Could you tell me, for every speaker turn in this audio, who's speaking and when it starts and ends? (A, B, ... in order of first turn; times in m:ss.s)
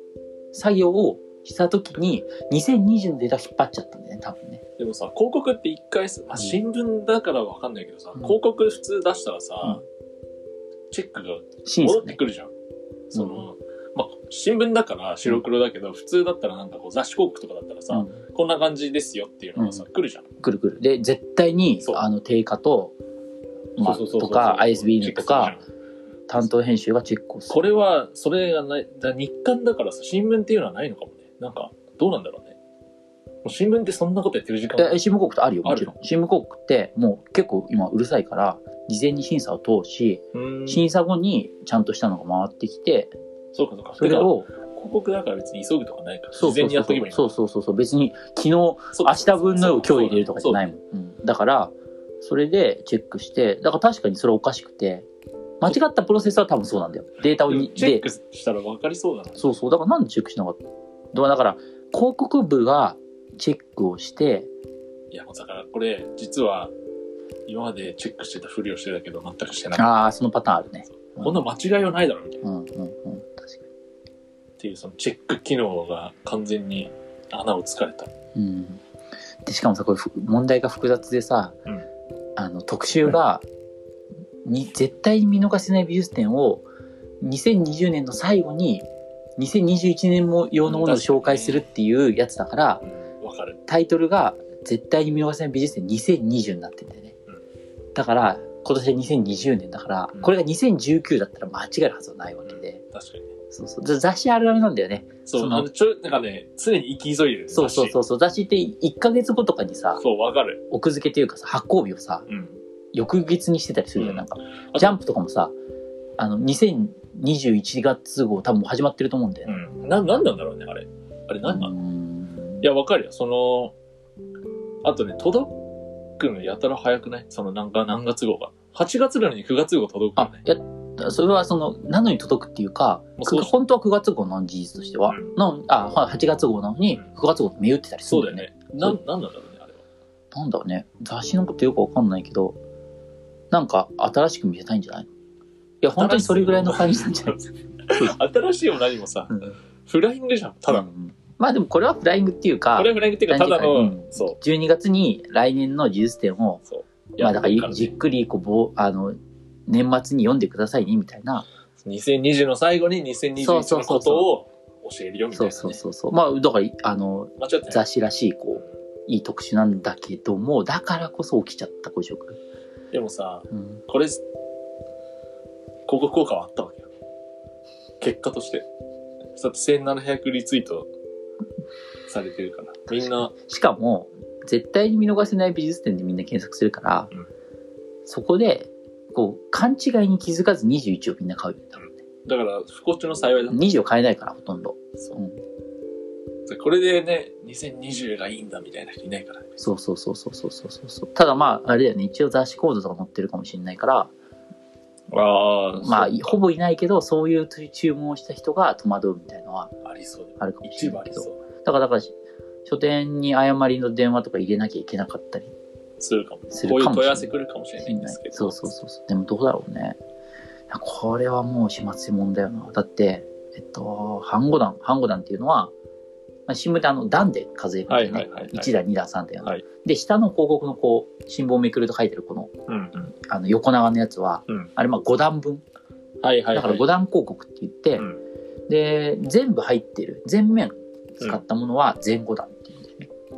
0:00.5-0:04.6 A
0:04.8-0:09.8 B
0:10.9-0:12.5 B
0:11.6-0:12.2 A
0:13.1-0:20.3 B
0:13.1-0:13.4 A
0:17.9-0:18.2 A
0:19.6-0:19.8 A
0:20.4-0:23.0 A
0:23.8-0:25.6 A
0:23.8-0:25.6 B
0:26.3-0:27.7 A
0:27.5-0:32.6 B
0:33.4-0:35.0 B
0:34.8-0:43.1 A
0:35.6-0:35.9 B
0:40.3-0:40.8 B
0:43.5-0:47.3 B
0:44.0-0:44.5 A
0:46.3-0:55.1 A
0:48.9-0:50.6 B
0:55.6-0:58.1 A
0:57.3-0:59.6 B
0:59.4-1:00.6 A
1:01.1-1:04.5 A
1:05.1-1:06.7 B
1:07.4-1:10.0 B
1:09.7-1:11.4 A
1:11.0-1:12.4 B
1:12.4-1:13.7 A
1:14.6-1:18.1 B
1:18.4-1:18.8 A
1:19.4-1:21.6 A
1:22.4-1:23.4 A
1:24.4-1:26.7 A
1:27.2-1:32.8 A
1:30.6-1:31.6 B
1:32.9-1:33.6 B
1:33.7-1:37.1 A
1:37.9-1:42.8 A
1:42.5-1:43.3 B
1:43.5-1:45.7 A
1:45.2-1:48.0 B
1:47.5-1:50.0 A
1:50.0-1:50.6 B
1:50.7-1:52.3 A
1:52.3-1:52.6 B
1:52.9-1:55.5 A
1:54.0-1:55.0 B
1:56.2-1:59.5 A
1:59.5-2:01.7 B
2:01.4-2:02.6 A
2:02.6-2:03.7 B
2:04.8-2:05.6 B
2:06.2-2:10.4 B
2:10.2-2:19.0 A
2:13.2-2:13.5 B
2:15.1-2:15.3 B
2:18.0-2:19.8 B
2:20.3-2:22.6 A
2:23.5-2:25.1 A
2:25.8-2:28.2 A
2:26.0-2:27.0 B
2:27.9-2:30.9 B
2:29.3-2:29.6 A
2:30.7-2:36.6 A
2:32.8-2:34.4 B
2:36.7-2:37.9 B
2:37.2-2:41.4 A
2:41.8-2:45.8 B
2:43.4-2:44.3 A
2:45.3-2:52.4 A
2:47.4-2:47.8 B
2:52.9-2:54.2 B
2:53.5-2:53.8 A
2:55.9-2:56.9 B
2:58.0-2:58.7 B
2:59.4-3:00.9 B
3:02.0-3:03.3 B
3:02.9-3:07.1 A
3:08.0-3:12.0 A
3:12.2-3:13.8 B
3:13.5-3:15.4 A
3:16.5-3:19.6 B
3:19.6-3:24.1 A
3:25.1-3:26.4 B
3:25.8-3:29.7 A
3:29.8-3:31.4 B
3:30.4-3:35.5 A
3:36.0-3:38.6 B
3:36.5-3:40.0 A
3:40.7-3:45.7 A
3:46.5-3:52.5 A
3:47.9-3:48.7 B
3:52.7-3:53.1 B
3:53.2-3:55.6 A
3:56.2-3:56.8 B
3:56.5-3:58.1 A
3:58.7-4:03.1 A